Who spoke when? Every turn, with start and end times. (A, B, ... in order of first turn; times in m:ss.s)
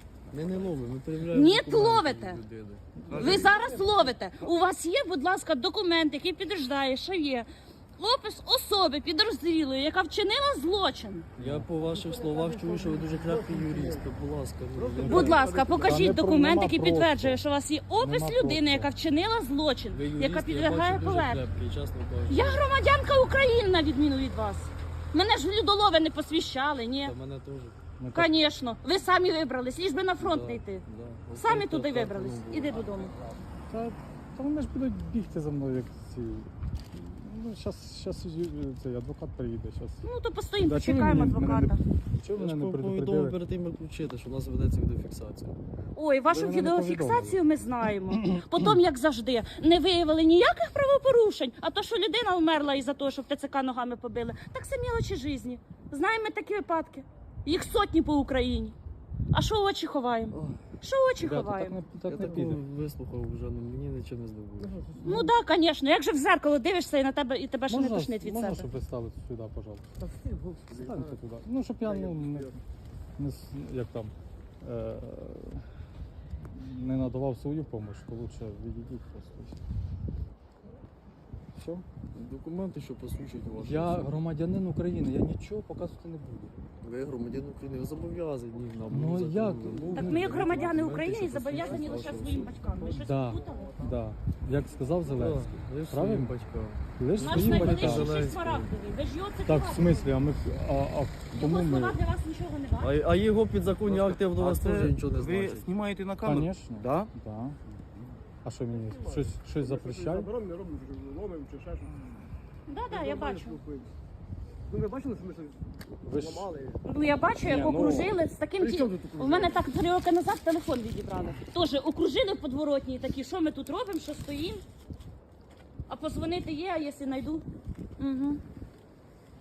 0:00.3-0:00.8 A
0:00.3-0:02.8 B
0:01.3-0:02.4 C
0:03.1-0:03.6 A
0:03.1-0:03.6 D
0:03.1-0:11.3 C
0:03.4-0:04.0 E
0:04.3-0:04.6 A
0:11.4-0:11.7 D
0:11.4-0:15.5 B
0:11.9-0:14.0 E
0:14.7-0:16.1 E
0:15.0-0:21.4 C
0:15.8-0:17.4 D
0:18.0-0:18.9 D
0:19.9-0:22.7 B
0:22.2-0:27.1 C
0:27.0-0:27.8 B
0:28.0-0:28.3 D
0:28.1-0:30.8 C
0:30.2-0:33.2 B
0:31.4-0:33.2 C
0:33.7-0:40.1 D
0:40.0-0:41.8 C
0:40.6-0:43.4 D
0:42.4-0:45.6 B
0:45.9-0:58.8 C
0:46.3-0:47.5 D
0:59.3-1:01.8 C
1:00.3-1:00.6 B
1:01.2-1:02.6 D
1:02.1-1:05.0 B
1:04.6-1:05.2 E
1:05.0-1:08.7 C
1:07.7-1:09.9 D
1:10.0-1:10.6 E
1:10.7-1:12.6 D
1:11.8-1:12.5 E
1:13.2-1:15.7 D
1:16.4-1:19.6 D
1:21.5-1:21.9 D
1:22.1-1:24.2 B
1:23.6-1:26.6 D
1:26.8-1:32.6 B
1:28.9-1:30.8 D
1:29.9-1:33.8 C
1:31.6-1:33.9 E
1:32.9-1:36.3 D
1:35.0-1:38.7 B
1:37.0-1:38.1 D
1:37.2-1:40.1 C
1:39.5-1:42.0 D
1:41.4-1:42.9 C
1:42.8-1:45.7 B
1:43.8-1:47.1 A
1:46.2-1:47.6 D
1:47.7-1:48.2 A
1:48.4-1:50.3 D
1:48.7-1:51.9 E
1:52.7-1:53.6 C
1:52.9-1:53.9 E
1:54.7-1:56.8 E
1:56.1-1:56.5 D
1:56.8-2:04.6 C
1:57.4-1:58.2 D
1:58.6-1:59.6 E
2:05.9-2:07.4 C
2:08.0-2:08.4 C